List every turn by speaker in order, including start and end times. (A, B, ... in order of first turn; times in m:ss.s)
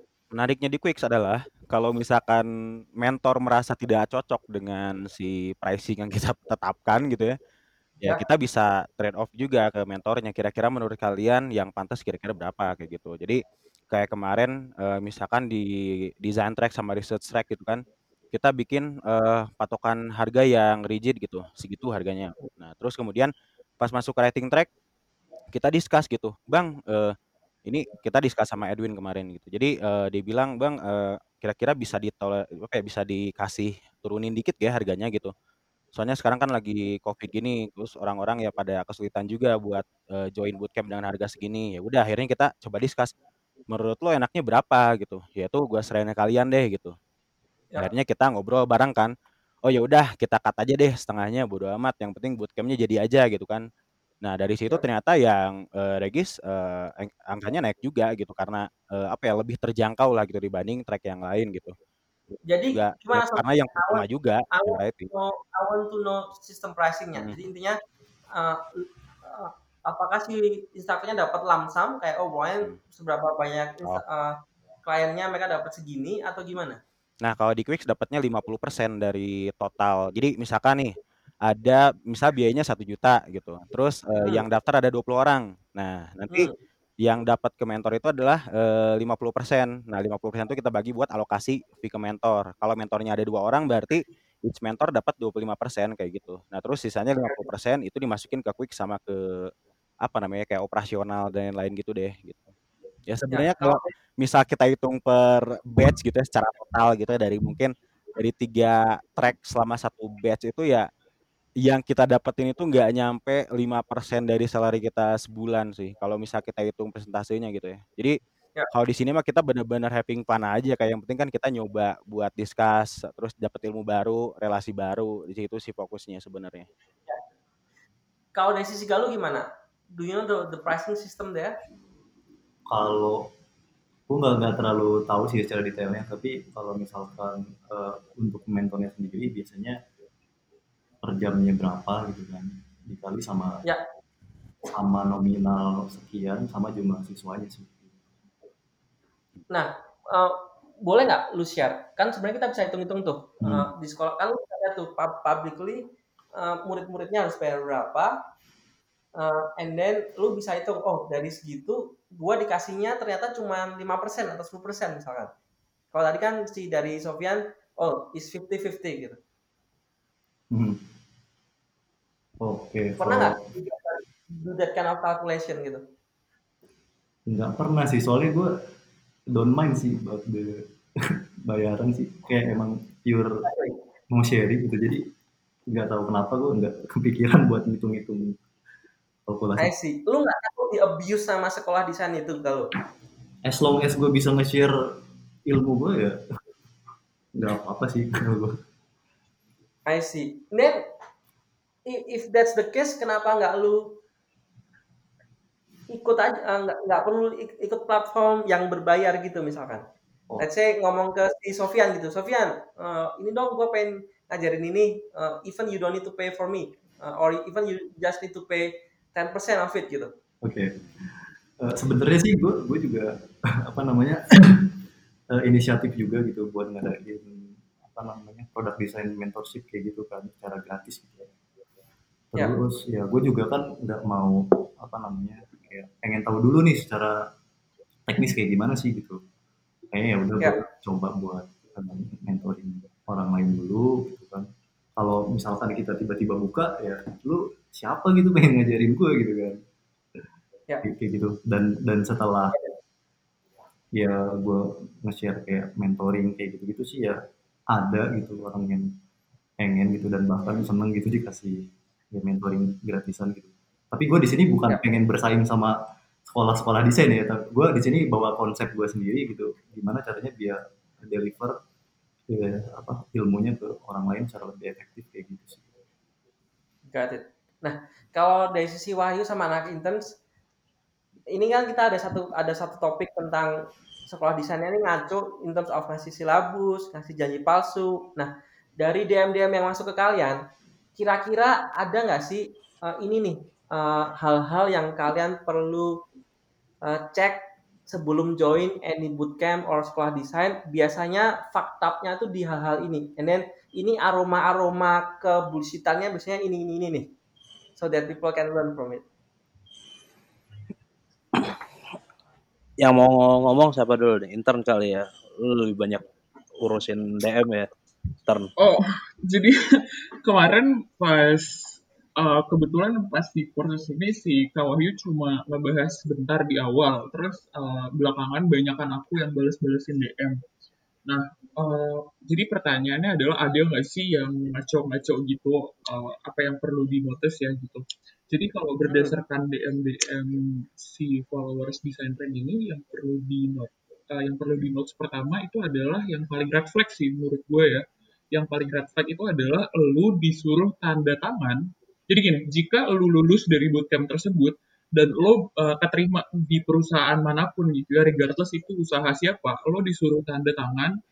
0:00.3-0:07.4 A
0:08.0-0:24.7 A
0:25.5-0:35.3 A
0:35.9-0:43.1 A
0:43.7-0:46.9 A
0:47.8-0:49.1 A
0:49.6-0:53.6 A
0:54.2-1:01.7 A
1:02.3-1:05.1 A
1:02.5-1:07.8 B
1:08.3-1:14.3 B
1:14.8-1:16.8 B
1:17.2-1:39.5 A
1:24.2-1:24.4 B
1:40.0-1:42.5 A
1:43.1-1:50.9 A
1:43.3-1:43.9 B
1:51.6-1:58.2 A
1:58.7-2:06.7 A
2:08.3-2:11.5 B
2:12.7-2:13.3 C
2:14.1-2:19.8 C
2:21.0-2:23.6 C
2:24.6-2:27.9 C
2:29.5-2:35.8 B
2:36.3-2:38.2 B
2:39.2-2:45.3 B
2:45.9-2:49.2 B
2:50.5-2:50.8 C
2:52.4-2:53.5 C
2:53.0-2:55.8 B
2:57.3-2:58.5 C
2:59.3-3:03.4 C
3:03.4-3:03.8 B
3:04.1-3:05.1 C
3:05.7-3:08.3 C
3:09.3-3:09.7 C
3:09.6-3:12.7 B
3:13.4-3:14.7 C
3:15.5-3:16.2 C
3:17.4-3:18.6 C
3:19.9-3:20.8 B
3:21.9-3:24.0 B
3:25.9-3:29.8 B
3:30.4-3:40.1 B
3:40.4-3:44.8 C
3:45.3-3:51.3 C
3:52.3-3:57.2 C
3:58.1-3:59.2 C
3:59.9-4:09.6 C
4:10.8-4:12.6 C
4:13.9-4:17.2 C
4:17.7-4:18.9 C
4:19.6-4:25.8 C
4:26.3-4:31.6 C
4:32.3-4:35.7 C
4:36.9-4:40.1 B
4:41.3-4:43.5 B
4:44.1-4:50.4 B
4:51.0-4:55.9 B
4:56.8-5:07.1 B
5:07.8-5:09.0 B
5:12.8-5:16.0 D
5:16.6-5:17.7 D
5:18.6-5:30.4 E
5:31.1-6:00.9 E
5:38.8-5:39.2 B